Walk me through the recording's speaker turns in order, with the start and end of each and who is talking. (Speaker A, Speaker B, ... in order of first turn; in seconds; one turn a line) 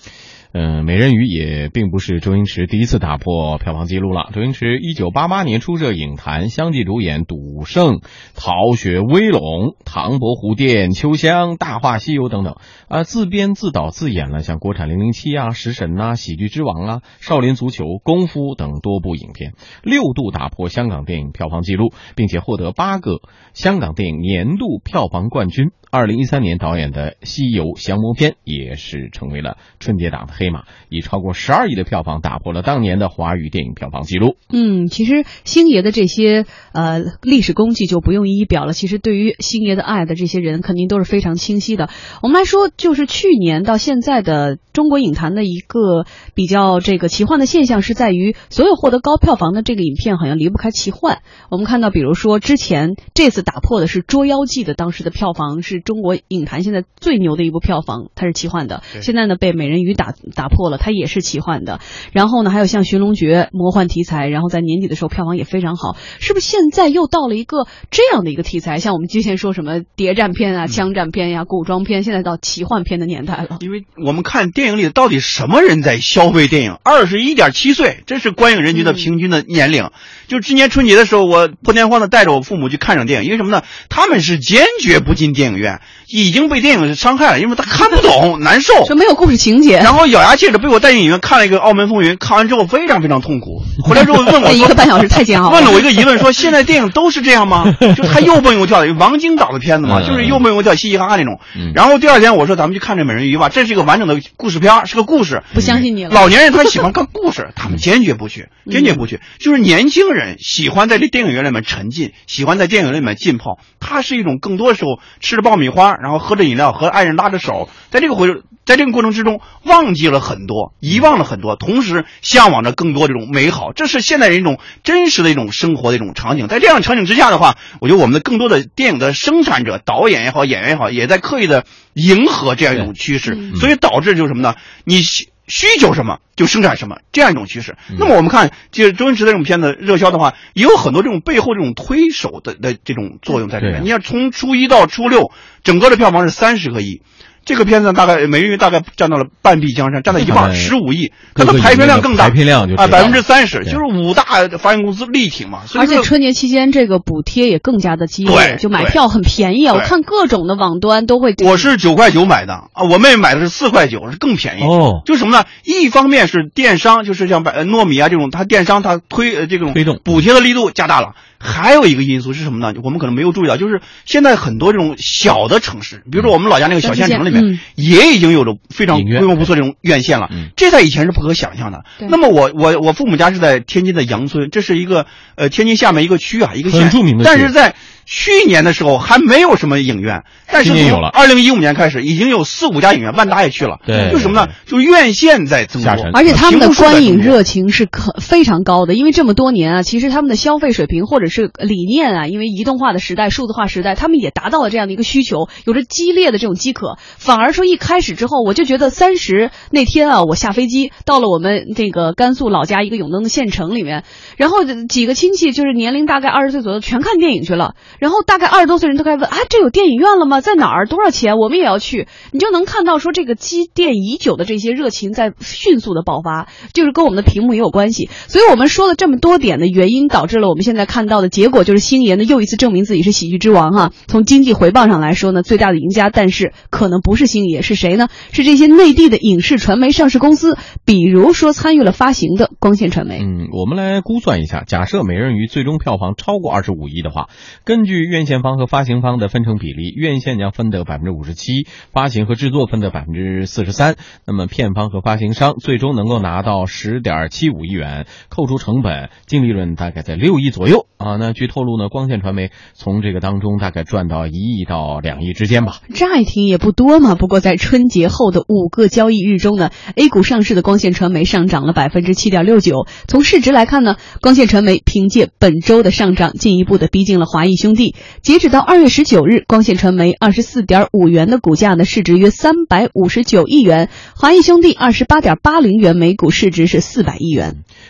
Speaker A: 0.5-34.4
Speaker B: 34.5-73.6
Speaker C: 73.6-88.9
Speaker B: 78.7-79.1
Speaker B: 88.8-89.9
Speaker C: 89.8-94.9
Speaker B: 94.4-95.8
Speaker C: 95.4-156.1
Speaker A: 99.8-100.4
Speaker A: 105.5-105.8
Speaker B: 105.5-106.8
Speaker B: 108.7-109.0
Speaker B: 133.3-133.5
Speaker A: 143.6-143.9
Speaker A: 150.1-150.7
Speaker A: 151.3-153.8
Speaker B: 155.7-161.7
Speaker C: 158.2-159.0
Speaker C: 161.4-197.4
Speaker A: 164.6-165.0
Speaker A: 169.7-170.2
Speaker B: 176.8-177.6
Speaker A: 178.9-179.5
Speaker A: 186.7-187.5
Speaker A: 190.6-191.1
Speaker A: 193.8-194.5
Speaker A: 195.8-196.3
Speaker B: 196.1-243.2
Speaker A: 243.2-265.8
Speaker B: 265.9-287.6